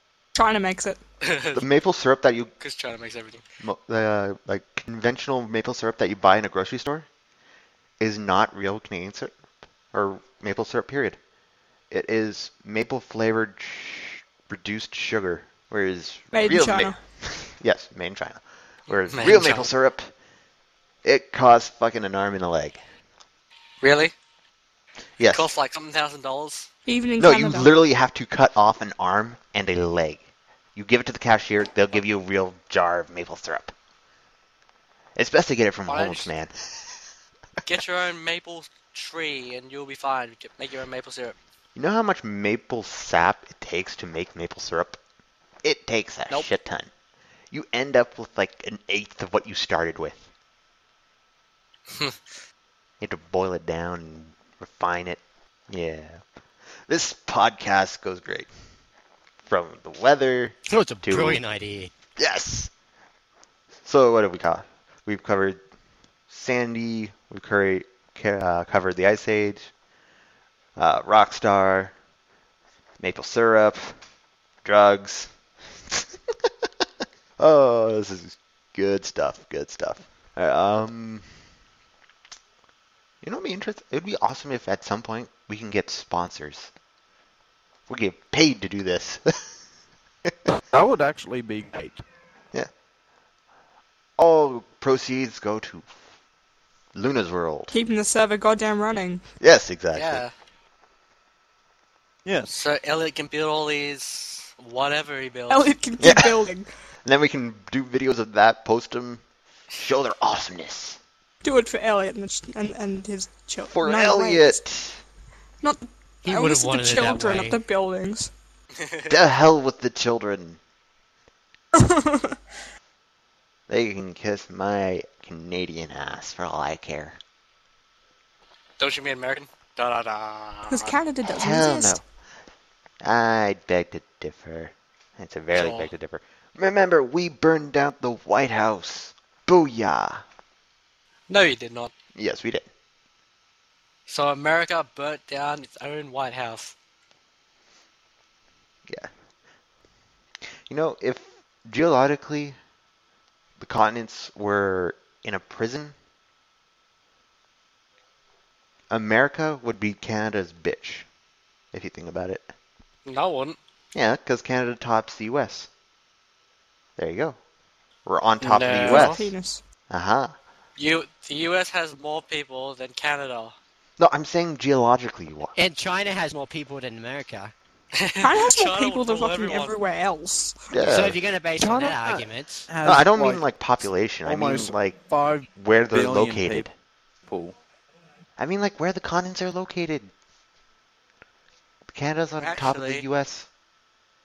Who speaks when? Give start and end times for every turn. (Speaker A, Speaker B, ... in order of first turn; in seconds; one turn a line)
Speaker A: 0.3-1.0
Speaker B: 1.2-1.6
Speaker C: 1.5-2.5
Speaker B: 2.6-3.4
Speaker C: 3.6-7.1
Speaker C: 8.0-9.3
Speaker C: 9.9-11.2
Speaker C: 11.9-20.1
Speaker A: 16.3-17.0
Speaker B: 19.1-19.7
Speaker C: 21.0-22.8
Speaker B: 23.8-24.1
Speaker C: 25.2-25.5
Speaker B: 25.3-26.7
Speaker A: 26.9-27.8
Speaker C: 27.2-30.2
Speaker C: 30.8-33.7
Speaker C: 35.2-36.9
Speaker B: 35.9-36.3
Speaker B: 37.6-41.4
Speaker C: 41.8-45.0
Speaker C: 45.6-46.9
Speaker C: 47.5-50.2
Speaker B: 51.9-52.2
Speaker C: 53.0-56.2
Speaker C: 56.9-58.5
Speaker C: 59.5-61.4
Speaker D: 60.8-61.9
Speaker C: 62.2-62.7
Speaker C: 63.8-65.6
Speaker C: 66.3-69.7
Speaker C: 70.8-71.9
Speaker C: 73.0-74.0
Speaker C: 74.7-75.3
Speaker C: 77.4-81.2
Speaker C: 83.2-86.7
Speaker C: 87.9-89.5
Speaker E: 90.5-92.0
Speaker C: 94.2-95.9
Speaker C: 97.0-97.7
Speaker A: 97.7-99.2
Speaker C: 99.4-100.2
Speaker B: 99.9-100.3
Speaker E: 102.2-102.6
Speaker B: 102.5-105.7
Speaker A: 105.5-106.7
Speaker C: 106.0-106.4
Speaker C: 107.0-109.2
Speaker C: 109.7-111.0
Speaker A: 111.4-114.6
Speaker C: 113.6-115.0
Speaker A: 115.6-118.3
Speaker D: 116.2-117.6
Speaker B: 118.8-119.2
Speaker C: 119.1-120.6
Speaker A: 121.7-122.4
Speaker C: 123.7-127.2
Speaker B: 128.8-130.9
Speaker A: 130.7-132.0
Speaker C: 131.2-132.0
Speaker C: 133.0-140.2
Speaker B: 135.5-135.9
Speaker B: 141.3-141.9
Speaker C: 142.2-142.7
Speaker B: 144.1-146.7
Speaker C: 150.7-152.6
Speaker C: 153.6-155.9
Speaker C: 158.9-161.1
Speaker C: 161.7-162.5
Speaker B: 163.1-163.6
Speaker C: 163.9-165.7
Speaker C: 167.0-167.4
Speaker C: 168.1-169.3
Speaker B: 168.4-169.3
Speaker A: 168.8-169.6
Speaker C: 169.9-170.3
Speaker B: 170.8-173.6
Speaker C: 174.0-175.6
Speaker D: 175.6-177.5
Speaker B: 178.0-179.7
Speaker A: 178.2-180.8
Speaker C: 180.7-181.2
Speaker D: 180.9-182.6
Speaker E: 181.5-186.7
Speaker C: 182.8-185.0
Speaker C: 185.6-186.7
Speaker E: 187.2-187.6
Speaker C: 188.4-190.1
Speaker C: 191.9-193.5
Speaker B: 192.4-193.1